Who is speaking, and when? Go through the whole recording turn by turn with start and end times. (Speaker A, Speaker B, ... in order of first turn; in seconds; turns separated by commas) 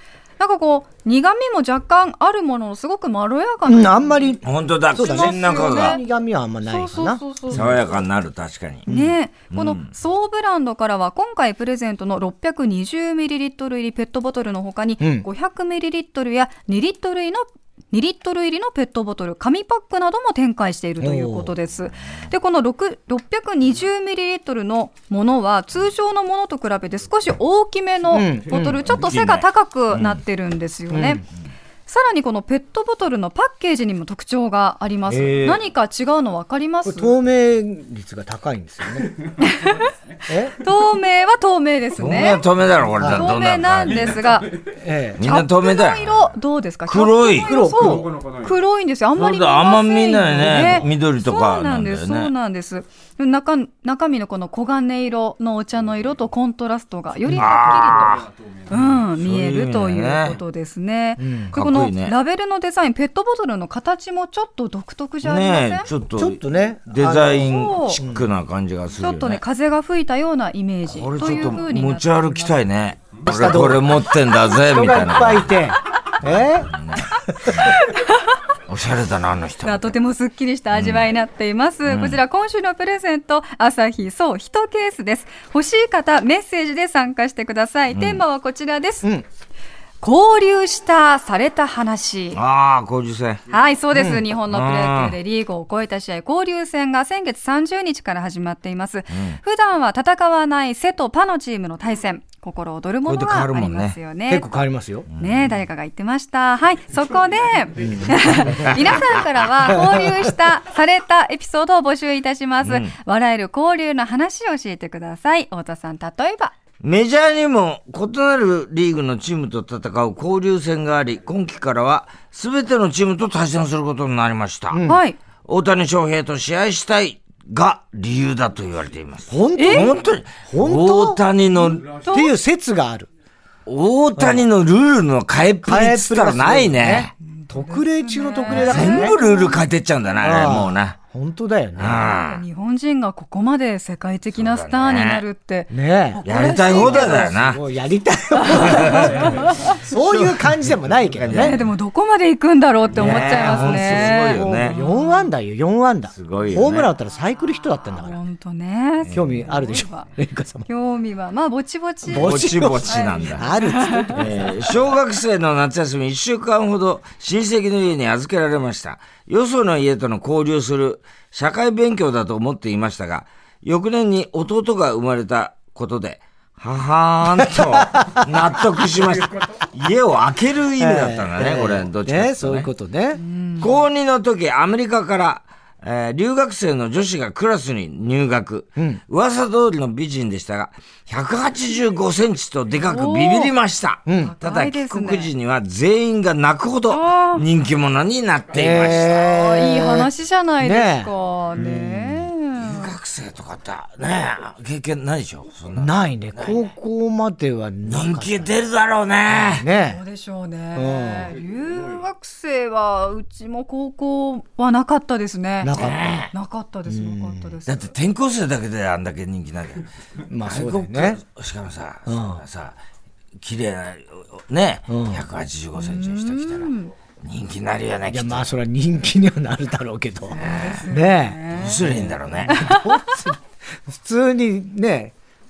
Speaker A: 0.4-4.4, Speaker B: 3.6-7.8, Speaker C: 4.4-6.0, Speaker A: 4.9-6.0, Speaker A: 6.7-8.0, Speaker C: 7.5-8.9, Speaker B: 8.9-9.1, Speaker A: 8.9-31.2, Speaker C: 9.5-9.9, Speaker B: 15.0-15.2, Speaker B: 21.0-21.5, Speaker B: 28.1-28.8, Speaker C: 28.8-30.2, Speaker B: 30.9-31.2, Speaker A: 31.9-37.1, Speaker C: 35.1-35.6, Speaker B: 36.8-39.2, Speaker A: 39.4-39.9, Speaker B: 40.3-40.5, Speaker A: 40.5-42.4, Speaker C: 42.0-44.4, Speaker B: 43.0-43.3, Speaker A: 43.0-44.5, Speaker B: 44.7-45.2, Speaker C: 45.2-46.3, Speaker A: 45.2-65.9, Speaker C: 46.9-47.5, Speaker B: 47.4-48.1, Speaker C: 49.1-52.3, Speaker C: 57.3-60.4, Speaker B: 61.2-61.5, Speaker C: 61.5-62.1, Speaker C: 65.2-69.4, Speaker B: 66.2-68.2, Speaker A: 67.4-68.0, Speaker A: 69.0-72.6, Speaker C: 70.9-75.6, Speaker B: 73.2-73.9, Speaker B: 74.5-76.8, Speaker C: 76.4-77.8, Speaker A: 77.7-78.3, Speaker C: 78.7-80.0, Speaker A: 79.6-89.1, Speaker C: 80.7-81.1, Speaker C: 81.8-82.2, Speaker C: 87.9-88.2, Speaker A: 90.0-92.4, Speaker C: 92.3-93.4, Speaker A: 93.5-104.5, Speaker B: 93.9-94.2, Speaker C: 94.5-95.2, Speaker C: 99.1-99.4, Speaker C: 103.0-104.0, Speaker B: 104.3-105.1, Speaker C: 105.1-105.6, Speaker A: 105.2-116.5, Speaker B: 107.8-108.9, Speaker C: 108.7-109.0, Speaker B: 109.7-110.2, Speaker C: 112.6-112.9, Speaker C: 116.8-124.8, Speaker B: 124.7-125.0, Speaker A: 124.8-125.2, Speaker C: 125.4-132.0, Speaker B: 129.3-131.2, Speaker A: 129.5-129.9, Speaker A: 132.0-132.3, Speaker B: 132.1-133.1, Speaker C: 133.7-137.1, Speaker B: 134.2-134.5, Speaker B: 135.6-139.2, Speaker A: 137.2-139.6, Speaker C: 138.5-141.0, Speaker B: 140.2-142.2, Speaker C: 141.8-142.4, Speaker A: 142.2-147.3, Speaker C: 144.3-145.2, Speaker B: 145.7-146.2, Speaker C: 146.2-147.6, Speaker B: 146.8-151.6, Speaker A: 148.4-149.8, Speaker C: 148.6-149.4, Speaker C: 149.9-150.4, Speaker C: 151.1-151.7, Speaker A: 151.3-155.3, Speaker C: 152.9-154.8, Speaker B: 153.0-158.2, Speaker C: 156.1-156.9, Speaker A: 157.9-160.1, Speaker C: 159.1-159.4, Speaker B: 159.1-160.7, Speaker A: 160.7-164.3, Speaker B: 162.1-164.4, Speaker C: 162.1-163.5, Speaker C: 164.1-182.7, Speaker B: 177.4-178.2, Speaker B: 180.8-183.2, Speaker A: 183.2-183.7, Speaker C: 183.6-199.3, Speaker A: 192.8-193.5, Speaker B: 194.1-194.3, Speaker A: 194.2-195.3, Speaker A: 196.9-197.4, Speaker B: 198.5-200.1, Speaker A: 199.1-202.9, Speaker B: 200.6-202.3, Speaker C: 202.5-206.6, Speaker B: 205.8-208.5, Speaker C: 207.8-209.7, Speaker B: 209.3-210.0, Speaker A: 209.8-215.8, Speaker B: 210.7-211.3, Speaker B: 215.6-216.2, Speaker C: 215.7-216.3, Speaker A: 216.3-217.9, Speaker B: 216.9-217.5, Speaker C: 217.7-219.9, Speaker B: 220.3-221.2, Speaker C: 220.4-222.8, Speaker B: 222.1-222.4, Speaker C: 223.4-228.4, Speaker B: 224.9-225.2, Speaker A: 225.8-226.9, Speaker B: 228.1-235.1, Speaker A: 230.3-233.2, Speaker C: 230.4-230.8, Speaker C: 231.5-232.7